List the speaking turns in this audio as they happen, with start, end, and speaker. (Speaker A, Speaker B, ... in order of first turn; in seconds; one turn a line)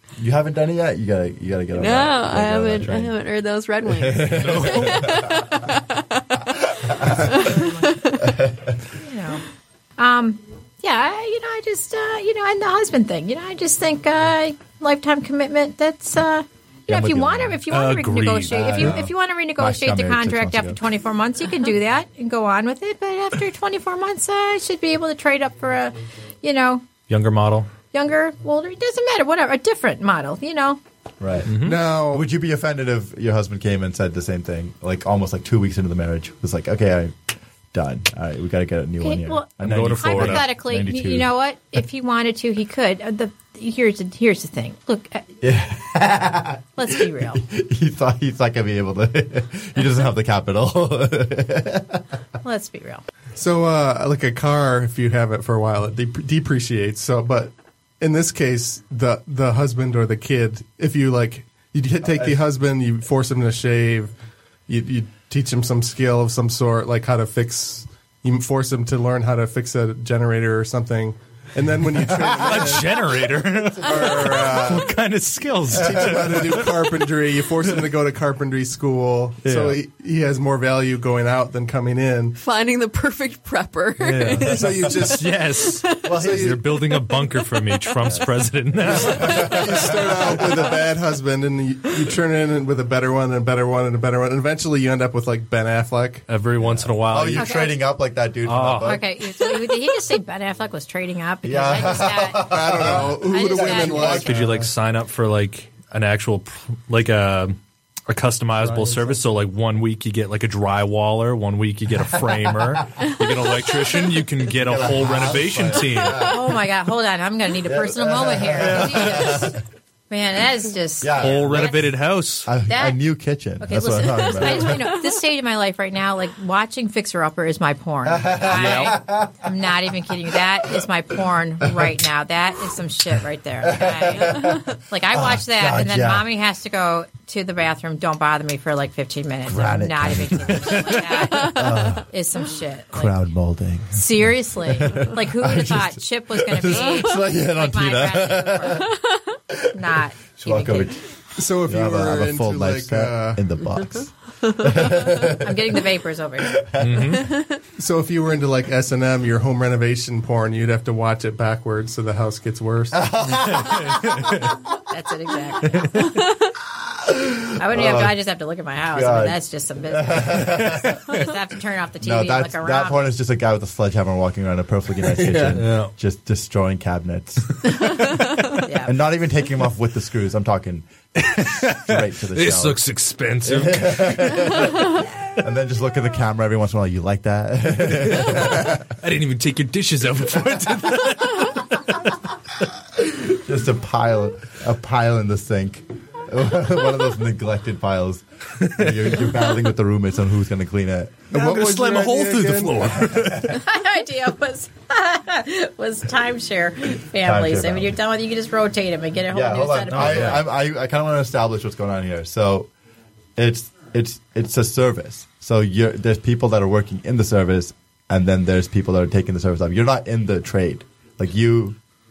Speaker A: 0.2-3.1
Speaker B: 1.7-6.3
Speaker A: 3.8-5.5
Speaker C: 4.2-5.0
Speaker A: 6.9-7.3
Speaker D: 7.1-9.4
Speaker B: 7.3-8.1
Speaker A: 8.2-8.7
Speaker D: 10.0-26.9
Speaker A: 16.9-17.6
Speaker C: 17.7-18.9
Speaker A: 18.5-20.8
Speaker C: 27.1-27.7
Speaker D: 27.9-30.8
Speaker A: 31.2-37.1
Speaker C: 31.4-31.8
Speaker E: 31.5-32.2
Speaker A: 37.7-41.3
Speaker D: 39.0-39.5
Speaker C: 39.6-40.4
Speaker D: 40.0-45.2
Speaker A: 45.4-52.0
Speaker D: 46.8-47.4
Speaker D: 52.4-53.0
Speaker E: 53.4-64.1
Speaker E: 64.7-73.1
Speaker A: 72.1-72.7
Speaker C: 72.4-76.8
Speaker A: 73.7-74.9
Speaker A: 75.7-76.8
Speaker E: 75.7-82.4
Speaker C: 79.4-79.8
Speaker B: 82.3-86.2
Speaker C: 84.0-90.5
Speaker A: 84.2-85.0
Speaker E: 84.5-85.3
Speaker A: 86.0-86.6
Speaker E: 86.2-86.6
Speaker B: 86.7-88.0
Speaker A: 88.8-90.6
Speaker E: 88.8-96.2
Speaker B: 89.1-89.4
Speaker C: 96.3-97.5
Speaker A: 96.6-99.0
Speaker D: 97.4-97.8
Speaker C: 98.4-99.0
Speaker D: 98.8-104.3
Speaker A: 101.4-104.7
Speaker E: 102.4-104.4
Speaker C: 104.1-107.5
Speaker C: 108.1-116.3
Speaker E: 108.6-109.0
Speaker A: 112.2-112.8
Speaker A: 114.5-116.6
Speaker D: 116.2-121.9
Speaker A: 117.7-119.6
Speaker C: 118.6-119.5
Speaker A: 121.0-121.7
Speaker C: 121.2-122.5
Speaker A: 122.4-124.9
Speaker D: 122.7-123.0
Speaker D: 123.6-143.2
Speaker A: 128.0-130.1
Speaker C: 128.5-129.0
Speaker A: 133.6-136.3
Speaker A: 139.4-142.1
Speaker A: 142.9-148.9
Speaker D: 143.9-148.9
Speaker D: 149.7-150.9
Speaker A: 150.4-151.0
Speaker E: 151.3-153.4
Speaker A: 151.6-155.7
Speaker D: 155.1-156.6
Speaker A: 156.5-157.1
Speaker C: 156.8-157.3
Speaker E: 157.8-163.1
Speaker A: 162.9-164.5
Speaker C: 163.3-164.5
Speaker D: 164.8-166.2
Speaker A: 167.0-168.2
Speaker D: 167.5-173.1
Speaker A: 168.9-169.4
Speaker A: 169.9-171.0
Speaker A: 172.0-177.7
Speaker E: 175.1-175.6
Speaker C: 175.5-175.9
Speaker D: 178.6-178.9
Speaker A: 178.8-180.9
Speaker C: 181.2-184.6
Speaker A: 181.8-182.8
Speaker A: 183.4-188.9
Speaker C: 188.2-192.0
Speaker A: 192.9-201.3
Speaker C: 198.6-199.3
Speaker E: 201.3-203.0
Speaker C: 201.3-203.6
Speaker D: 203.4-210.4
Speaker A: 207.2-208.0
Speaker A: 209.3-212.7
Speaker C: 209.9-210.4
Speaker A: 213.4-221.8